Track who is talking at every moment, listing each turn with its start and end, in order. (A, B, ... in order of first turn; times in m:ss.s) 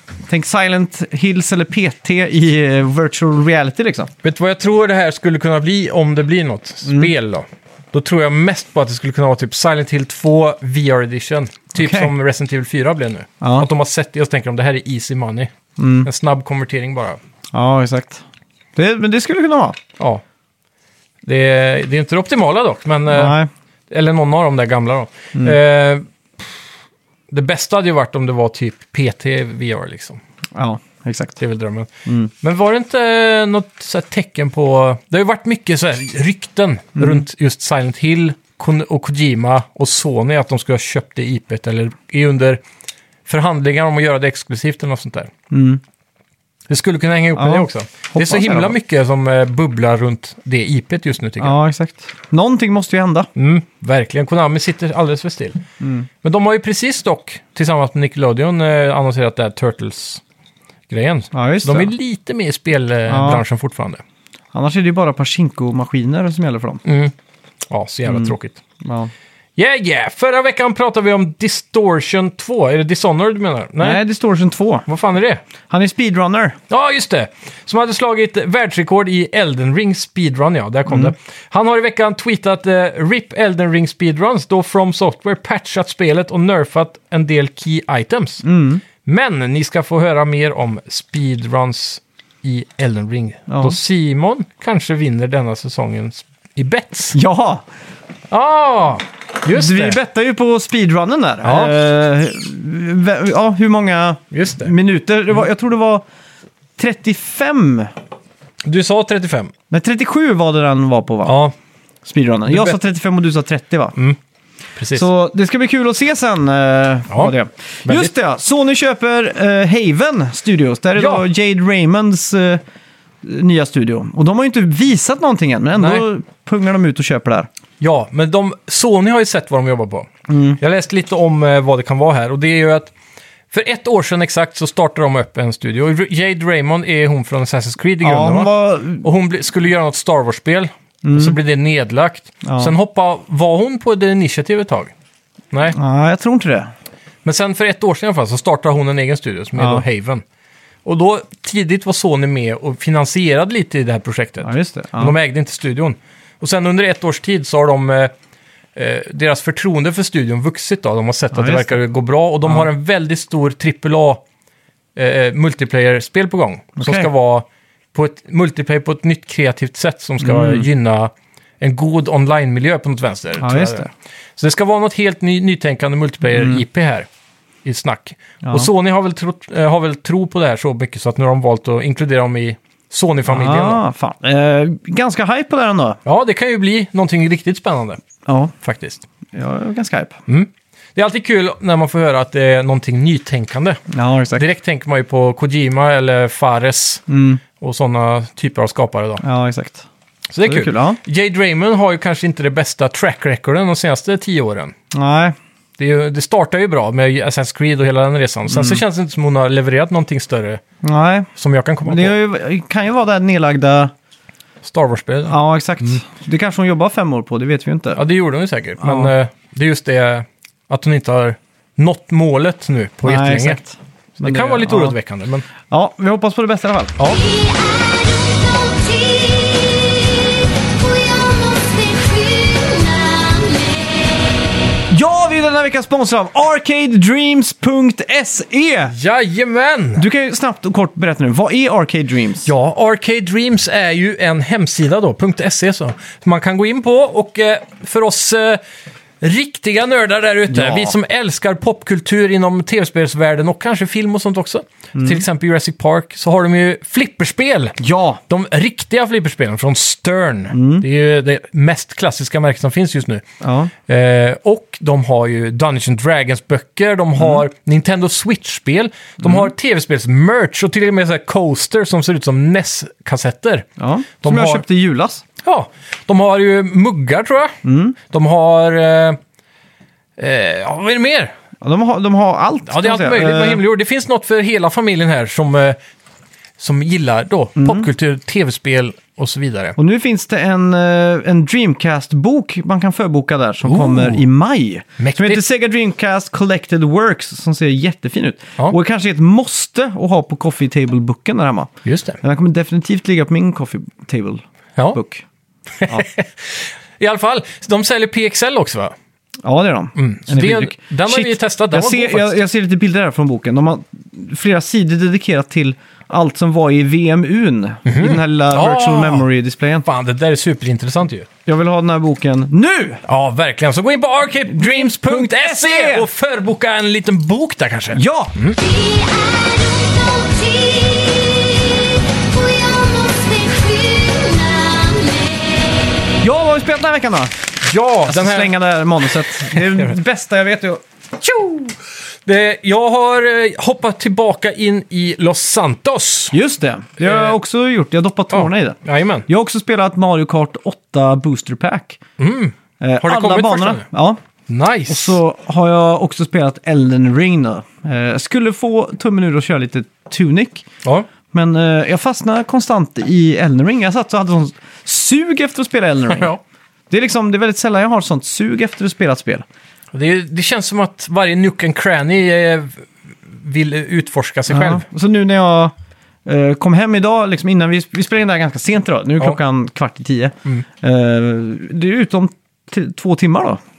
0:00.3-0:04.1 A
0:04.2-0:15.5 B
0:11.7-0:12.1 A
0:13.4-0:13.7 A
0:15.8-0:16.1 A
0:16.0-0:17.2 B
0:17.5-0:18.2 A
0:18.8-0:19.8 A
0:21.2-0:23.4 B
0:23.1-0:23.5 A
0:23.9-0:26.4 B
0:27.3-0:30.2 B
0:30.5-0:31.4 A
0:31.4-0:31.9 B
0:32.4-0:42.6 B
0:37.0-0:37.2 A
0:43.2-0:45.3 B
0:45.5-0:45.8 A
0:46.7-0:51.6 B
0:47.3-0:48.7 A
0:51.4-0:53.3 A
0:53.4-0:55.6 B
0:55.8-0:56.1 A
0:56.2-1:00.2 B
1:00.9-1:04.0 B
1:01.3-1:01.9 A
1:03.1-1:03.4 A
1:04.5-1:06.8 A
1:06.8-1:07.1 B
1:07.7-1:08.6 B
1:08.1-1:09.1 A
1:09.6-1:14.0 B
1:13.8-1:14.8 A
1:14.8-1:15.4 B
1:15.7-1:16.6 A
1:16.7-1:28.4 B
1:20.9-1:21.1 A
1:28.4-1:28.8 A
1:29.0-1:37.2 B
1:33.5-1:33.8 A
1:37.1-1:37.6 A
1:38.3-1:40.0 B
1:39.5-1:46.0 A
1:41.4-1:41.7 B
1:44.3-1:44.7 B
1:46.8-1:47.9 A
1:48.6-1:49.5 B
1:49.7-1:51.4 A
1:51.2-1:51.5 B
1:52.0-1:54.0 A
1:52.5-1:52.8 B
1:54.8-1:55.0 B
1:54.9-2:02.6 A
1:57.8-1:58.1 B
2:01.0-2:01.2 B
2:03.2-2:07.5 A
2:05.8-2:06.0 B
2:07.8-2:12.9 B
2:10.3-2:10.6 A
2:13.5-2:24.9 B
2:18.0-2:19.0 A
2:21.0-2:21.4 A
2:22.4-2:22.7 A
2:25.7-2:26.7 A
2:27.2-2:30.2 B
2:29.6-2:29.8 A
2:30.8-2:38.1 B
2:34.4-2:35.2 A
2:38.8-2:44.2 B
2:41.3-2:41.8 A
2:45.0-2:57.1 B
2:46.8-2:47.1 A
2:50.2-2:50.7 A
2:53.4-2:53.9 A
2:56.3-2:56.6 A
2:57.6-3:03.8 B
2:58.4-2:58.7 A
3:03.3-3:06.0 A
3:06.0-3:08.0 B
3:08.2-3:08.5 A
3:08.6-3:09.0 B
3:09.3-3:10.2 A
3:10.3-3:13.8 B
3:13.9-3:14.4 A
3:14.3-3:17.0 B
3:17.1-3:17.4 A
3:17.6-3:19.2 B
3:19.2-3:19.8 A
3:20.3-3:24.7 B
3:20.4-3:21.0 A
3:24.9-3:25.4 A
3:25.8-3:30.6 B
3:28.5-3:28.8 A
3:30.8-3:31.3 A
3:31.4-3:32.1 B
3:31.8-3:33.9 A
3:34.6-3:36.0 B
3:35.3-3:38.0 A
3:37.9-3:43.6 B
3:38.8-3:39.1 A
3:43.0-3:44.9 A
3:44.2-3:45.4 B
3:45.7-3:46.9 A
3:47.1-3:54.2 C
3:54.9-3:58.9 A
3:58.9-4:00.0 B
4:00.0-4:02.5 A
4:02.4-4:08.6 B
4:09.2-4:23.2 B
4:10.5-4:10.9 A
4:15.0-4:15.2 A
4:17.8-4:18.2 A
4:20.5-4:20.8 A
4:23.4-4:23.7 A
4:23.9-4:33.7 B
4:29.2-4:29.5 A
4:33.8-4:35.2 A
4:34.2-4:34.6 B
4:35.4-4:39.2 B
4:37.6-4:38.0 A
4:40.2-4:41.3 B
4:41.6-4:43.6 A
4:42.7-4:45.8 B
4:46.6-4:49.8 B
4:47.6-4:47.8 A
4:49.8-5:05.2 A
4:53.6-4:54.2 B
4:55.0-4:55.4 B
5:01.8-5:02.2 B
5:05.8-5:08.9 B
5:09.4-5:19.8 A
5:09.9-5:12.4 B
5:17.8-5:19.2 B
5:19.8-5:21.3 B
5:21.4-5:23.0 A
5:23.0-5:28.6 B
5:24.5-5:26.1 A
5:27.9-5:28.4 A
5:28.6-5:36.1 C
5:36.2-5:37.3 A
5:37.6-5:38.5 B
5:38.1-5:40.8 A
5:39.2-5:39.9 B
5:41.2-5:46.4 B
5:46.3-5:52.0 A
5:47.0-5:47.4 B
5:48.3-5:49.2 B
5:52.2-5:53.8 B
5:52.8-5:54.2 A
5:54.5-5:55.2 B
5:54.9-6:00.6 A
6:01.3-6:06.3 A
6:06.1-6:06.4 B
6:06.9-6:09.4 A
6:09.9-6:14.8 B
6:14.5-6:15.7 A
6:16.2-6:23.6 A